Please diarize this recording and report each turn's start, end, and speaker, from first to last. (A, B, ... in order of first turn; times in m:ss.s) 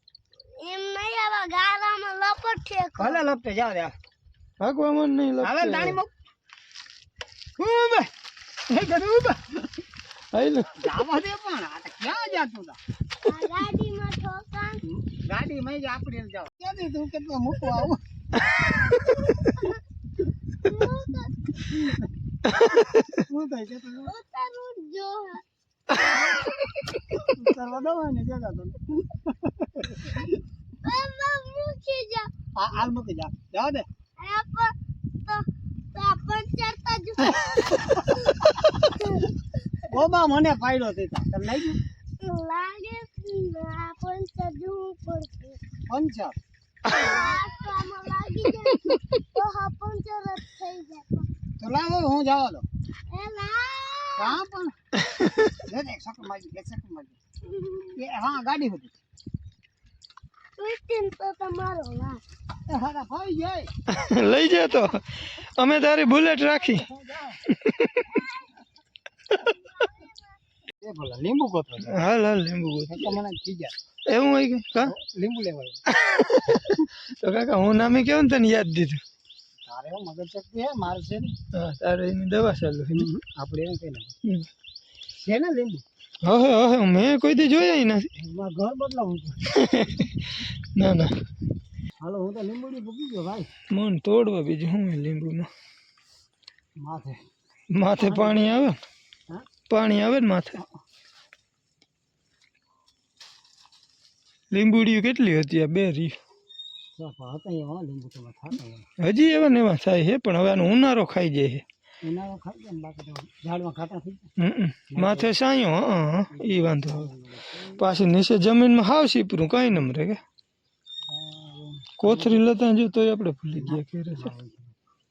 0:00.6-0:03.2 A
0:03.0-0:03.9 B
0:04.6-0:06.0 C
0:05.4-0:06.1 B
0:07.6-0:08.1 B
0:08.7-0:09.7 B
0:10.3-0:10.9 C
0:10.8-0:12.8 B
0:13.2-0:14.8 A
0:14.8-0:18.0 B
0:18.4-0:19.1 A
0:19.0-0:19.5 C
0:20.6-0:21.5 A
0:21.7-0:22.1 B
0:22.5-0:23.0 C
0:23.1-0:24.1 B
0:24.1-0:26.8 A
0:26.0-0:26.4 B
0:27.2-0:30.4 B
0:30.8-0:32.3 A
0:32.6-0:33.9 B
0:34.2-0:39.3 A
0:39.9-0:41.8 B
0:42.2-0:45.6 A
0:45.9-0:46.4 B
0:46.9-0:51.3 A
0:51.6-0:52.6 B
0:53.1-0:54.4 A
0:54.2-0:54.8 B
0:55.1-0:55.5 C
0:55.6-0:57.2 B
0:57.8-0:58.9 B
1:00.6-1:02.2 A
1:02.7-1:03.7 B
1:03.9-1:06.9 C
1:06.6-1:07.4 B
1:07.5-1:08.2 C
1:09.7-1:10.1 A
1:10.8-1:11.9 B
1:11.8-1:13.2 C
1:12.9-1:13.7 B
1:14.1-1:14.9 C
1:14.8-1:15.8 B
1:15.9-1:19.0 C
1:19.6-1:21.4 B
1:21.5-1:23.1 C
1:22.9-1:24.1 B
1:25.2-1:25.8 B
1:26.2-1:28.1 C
1:28.2-1:29.4 B
1:29.5-1:31.2 C
1:32.0-1:33.5 B
1:33.7-1:35.5 C
1:36.8-1:37.2 B
1:37.7-1:38.8 C
1:38.0-1:38.6 B
1:39.7-1:40.6 C
1:44.5-1:46.2 C
1:47.0-1:48.9 B
1:49.0-1:51.6 C
1:52.0-1:54.3 B
1:54.4-1:57.1 C
1:54.9-1:55.3 B
1:56.3-1:57.8 B
1:57.8-2:00.2 C
2:01.1-2:02.4 B
2:02.0-2:04.3 C
2:03.6-2:04.7 B